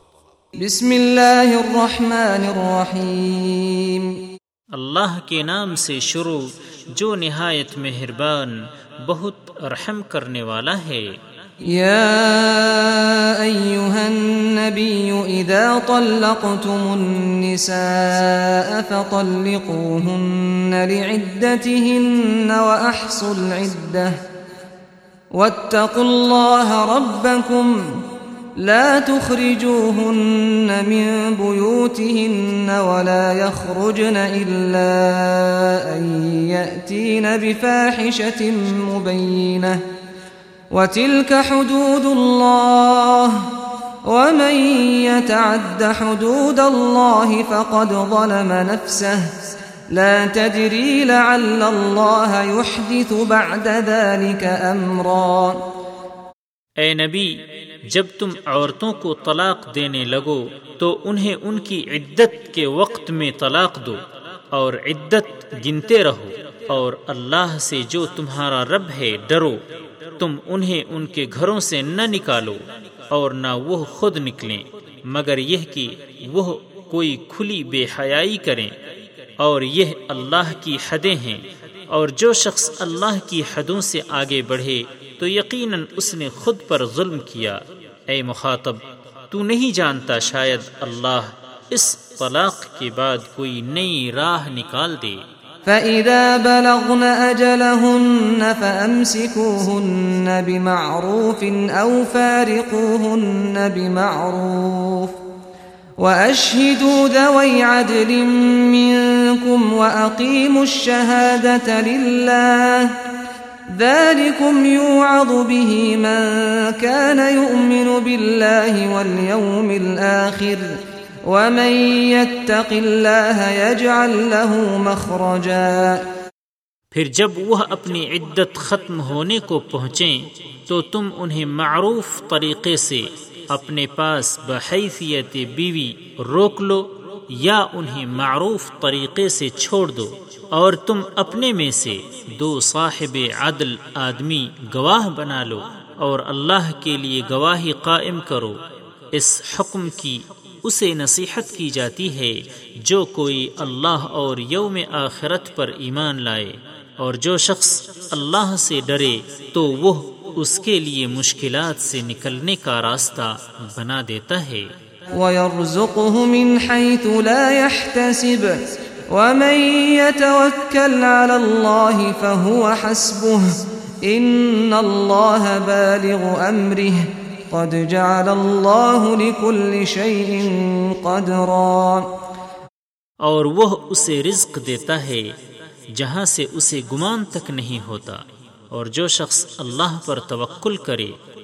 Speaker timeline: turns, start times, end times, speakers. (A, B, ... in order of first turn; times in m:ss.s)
0:00.6-0:04.1 A
0:04.7-0:11.1 B
0:11.7-0:24.1 A
0:25.3-0:27.8 A
0:28.6-0:39.8 A
0:40.7-0:43.4 A
0:44.1-0:49.2 A
0:49.9-0:55.6 A
0:56.8-0:57.3 B
0:57.9-1:04.0 B
1:04.5-1:09.6 B
1:10.2-1:18.7 B
1:19.4-1:35.2 B
1:35.6-1:45.1 A
1:46.0-1:52.9 A
1:53.7-2:00.7 A
2:01.3-2:06.0 A
2:06.9-2:28.6 B
2:29.1-2:44.7 B
2:45.2-2:48.6 A
2:49.1-2:53.4 A
2:54.0-3:02.1 A
3:03.2-3:05.3 B
3:06.0-3:11.2 B